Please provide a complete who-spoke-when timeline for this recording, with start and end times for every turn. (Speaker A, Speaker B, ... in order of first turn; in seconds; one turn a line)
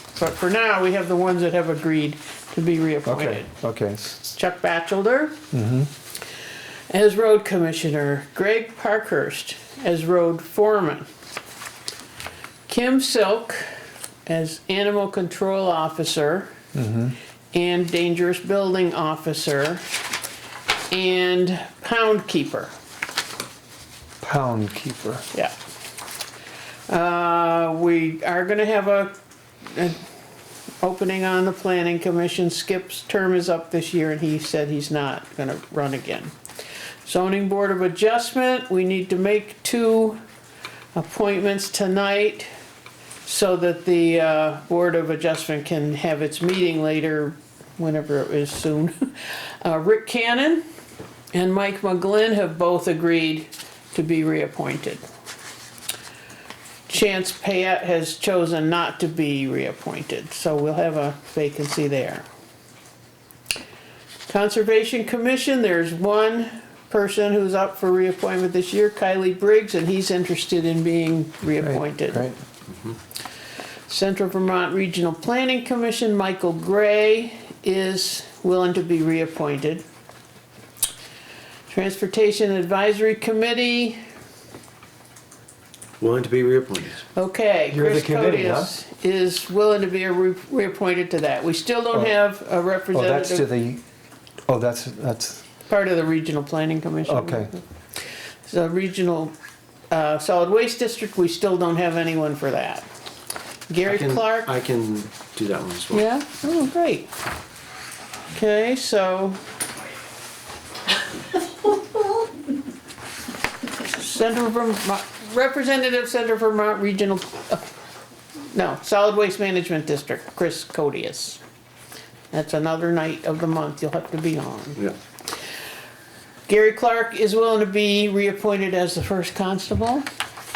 Speaker A: 0.2-3.5
Speaker B: 3.1-4.2
Speaker A: 4.3-5.4
Speaker B: 5.5-5.9
Speaker A: 6.9-11.1
Speaker A: 12.7-13.6
Speaker A: 14.3-16.5
Speaker B: 16.7-17.2
Speaker A: 17.5-19.8
Speaker A: 20.9-22.7
Speaker B: 24.2-25.2
Speaker A: 26.9-29.1
Speaker A: 29.7-30.0
Speaker A: 30.8-36.3
Speaker A: 37.0-40.2
Speaker A: 41.0-42.5
Speaker A: 43.3-50.6
Speaker A: 51.3-55.0
Speaker A: 56.9-62.2
Speaker A: 64.3-72.2
Speaker B: 71.6-72.4
Speaker A: 73.9-79.8
Speaker A: 81.7-84.0
Speaker C: 86.0-87.0
Speaker A: 87.2-93.5
Speaker B: 87.7-88.7
Speaker B: 91.9-92.2
Speaker B: 92.9-93.8
Speaker B: 94.5-95.4
Speaker A: 95.7-97.6
Speaker B: 97.0-97.5
Speaker A: 98.5-99.3
Speaker A: 99.9-102.9
Speaker A: 103.7-104.5
Speaker C: 103.8-106.1
Speaker A: 105.9-107.1
Speaker A: 108.3-109.4
Speaker A: 113.8-117.6
Speaker A: 118.5-121.4
Speaker A: 122.3-124.8
Speaker A: 126.5-130.1